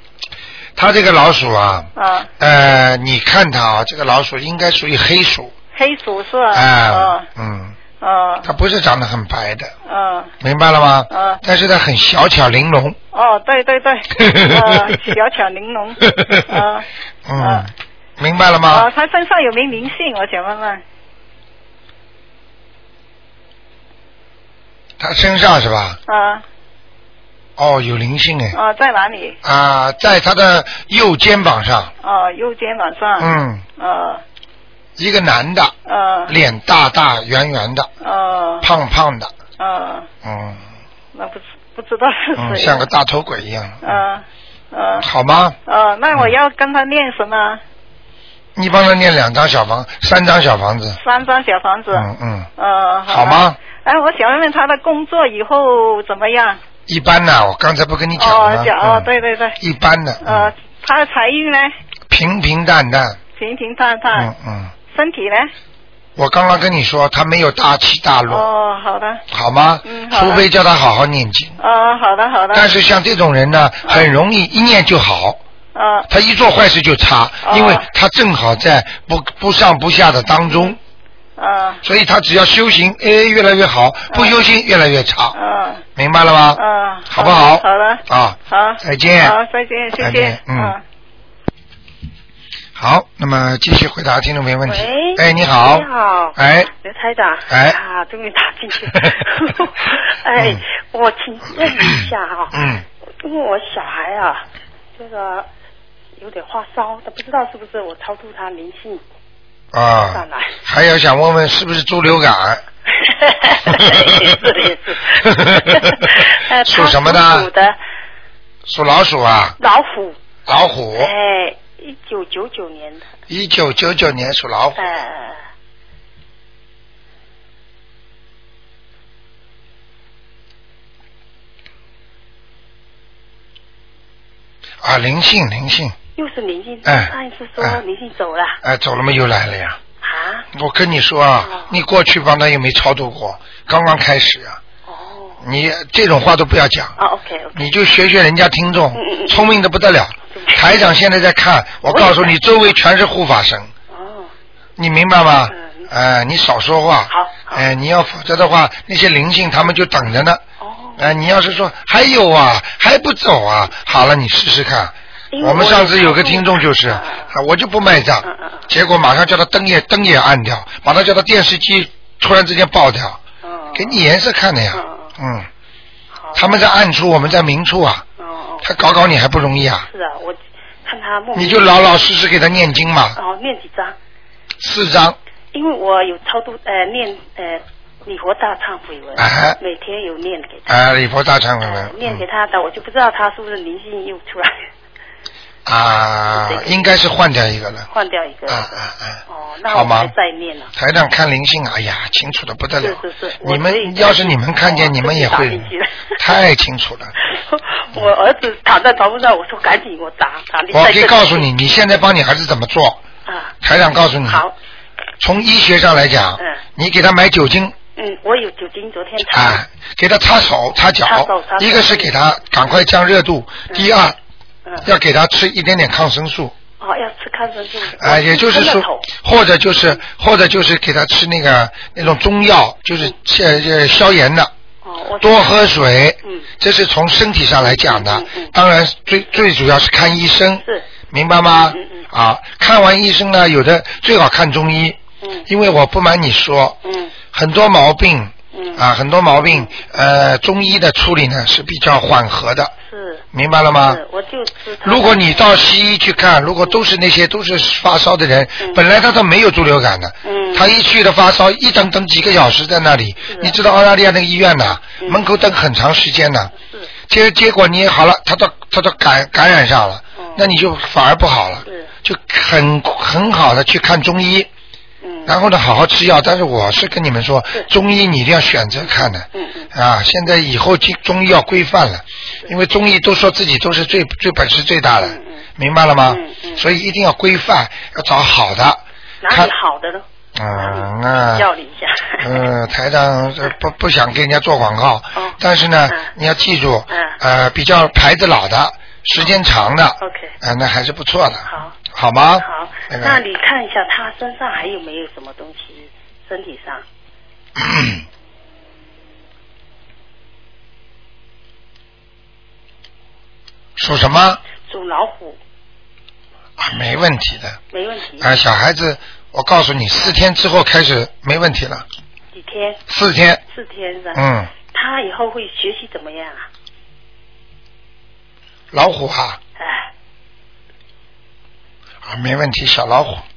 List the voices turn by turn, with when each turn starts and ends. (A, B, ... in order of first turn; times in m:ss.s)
0:00.8-0:05.5 A
0:02.0-0:02.3 B
0:05.7-0:07.2 B
0:06.5-0:07.8 A
0:08.0-0:08.5 B
0:08.4-0:09.7 A
0:09.8-0:10.3 B
0:10.4-0:13.0 A
0:11.1-0:11.4 B
0:13.1-0:16.9 B
0:14.2-0:15.0 A
0:16.0-0:16.6 A
0:17.3-0:18.9 A
0:17.4-0:17.7 B
0:18.7-0:20.8 B
0:25.0-0:26.0 A
0:26.1-0:26.4 B
0:27.6-0:28.6 A
0:28.5-0:29.4 B
0:29.4-0:31.9 A
0:32.0-0:34.2 B
0:33.2-0:33.6 A
0:35.0-0:35.7 A
0:35.8-0:36.3 B
0:36.3-0:37.9 A
0:38.0-0:38.7 B
0:38.6-0:39.3 A
0:39.6-0:40.1 B
0:40.2-0:40.6 A
0:41.1-0:42.8 B
0:42.4-0:44.0 A
0:43.8-0:45.0 B
0:45.0-0:45.6 A
0:45.6-0:47.6 B
0:48.6-0:51.0 A
0:51.0-0:56.6 B
0:51.9-0:52.5 A
0:53.1-0:53.6 A
0:56.9-1:00.5 A
0:58.2-0:59.6 B
1:00.2-1:01.7 B
1:02.1-1:03.2 A
1:03.4-1:04.3 B
1:04.1-1:04.7 A
1:04.9-1:05.5 B
1:06.2-1:08.5 A
1:08.3-1:09.2 B
1:09.3-1:11.6 A
1:09.8-1:10.4 B
1:11.6-1:12.7 B
1:12.5-1:15.4 A
1:15.7-1:16.1 B
1:16.1-1:20.8 A
1:17.4-1:17.9 B
1:20.5-1:20.8 B
1:21.4-1:21.8 B
1:21.8-1:25.4 A
1:25.3-1:25.8 B
1:26.0-1:29.4 A
1:26.5-1:30.8 B
1:30.0-1:30.8 A
1:32.7-1:36.7 A
1:34.6-1:42.6 C
1:37.5-1:37.8 A
1:40.4-1:40.6 A
1:42.5-1:42.8 A
1:43.2-1:45.5 C
1:46.2-1:49.0 C
1:49.7-1:52.6 A
1:50.0-1:50.6 C
1:52.9-1:57.8 C
1:53.6-1:54.5 A
1:55.1-1:57.5 A
1:58.6-1:59.6 A
1:59.6-2:00.2 C
2:00.4-2:01.1 A
2:01.0-2:03.0 C
2:03.3-2:04.8 A
2:04.8-2:05.4 C
2:14.8-2:16.0 A
2:16.2-2:18.6 C
2:16.8-2:17.8 A
2:18.6-2:19.8 A
2:20.0-2:20.4 C
2:20.5-2:24.6 A
2:21.4-2:21.7 C
2:24.8-2:25.4 C
2:25.4-2:26.9 A
2:27.0-2:27.7 C
2:27.5-2:33.7 A
2:28.9-2:29.5 C
2:30.3-2:30.9 C
2:31.8-2:32.4 C
2:33.9-2:34.3 C
2:34.8-2:40.4 A
2:35.5-2:35.9 C
2:37.1-2:37.6 C
2:40.6-2:41.1 C
2:41.0-2:53.2 A
2:45.3-2:47.3 C
2:48.2-2:48.7 C
2:53.4-2:54.0 C
2:53.7-2:55.5 A
2:54.7-2:55.1 C
2:56.1-2:56.6 C
2:56.3-2:58.0 A
2:58.2-2:58.7 C
2:58.6-2:59.9 A
2:59.8-3:02.0 C
3:01.3-3:03.2 A
3:03.1-3:04.0 C
3:04.6-3:05.2 A
3:05.5-3:10.8 C
3:09.2-3:09.6 A
3:10.7-3:12.2 A
3:11.6-3:14.6 C
3:15.6-3:17.9 A
3:16.3-3:16.9 C
3:17.9-3:20.7 C
3:18.5-3:20.1 A
3:20.7-3:27.1 A
3:22.8-3:26.1 C
3:27.2-3:31.5 C
3:30.7-3:33.0 A
3:33.2-3:33.5 C
3:33.6-3:34.4 A
3:34.2-3:34.5 C
3:35.2-3:37.7 A
3:38.0-3:39.6 C
3:39.2-3:44.2 A
3:41.0-3:42.1 C
3:44.8-3:46.5 A
3:46.8-3:49.1 C
3:48.0-3:54.5 A
3:54.8-3:55.7 C
3:55.2-4:06.8 A
3:57.7-3:58.5 C
4:01.7-4:02.0 C
4:05.2-4:05.5 C
4:06.8-4:07.1 C
4:07.3-4:12.7 A
4:08.5-4:08.8 C
4:09.4-4:09.8 C
4:12.8-4:13.2 C
4:13.3-4:14.0 A
4:13.8-4:15.6 C
4:14.8-4:26.5 A
4:20.2-4:20.7 C
4:23.3-4:23.6 C
4:25.0-4:25.2 C
4:26.6-4:26.9 C
4:27.1-4:34.5 A
4:30.2-4:30.4 C
4:31.6-4:31.9 C
4:35.0-4:35.4 C
4:35.2-4:49.5 A
4:39.3-4:39.7 C
4:45.0-4:45.4 C
4:46.0-4:46.7 C
4:49.2-4:52.4 C
4:50.3-4:51.5 A
4:52.2-5:03.2 A
4:56.9-4:57.2 C
5:00.0-5:00.3 C
5:01.4-5:01.8 C
5:02.4-5:06.8 C
5:07.6-5:08.0 A
5:13.8-5:14.4 A
5:14.6-5:15.4 C
5:16.6-5:17.6 A
5:17.7-5:18.3 C
5:18.2-5:21.8 A
5:22.3-5:22.8 C
5:22.9-5:23.4 A
5:23.5-5:26.5 C
5:24.1-5:24.5 A
5:28.7-5:29.4 A
5:29.6-5:29.9 C
5:32.0-5:33.2 A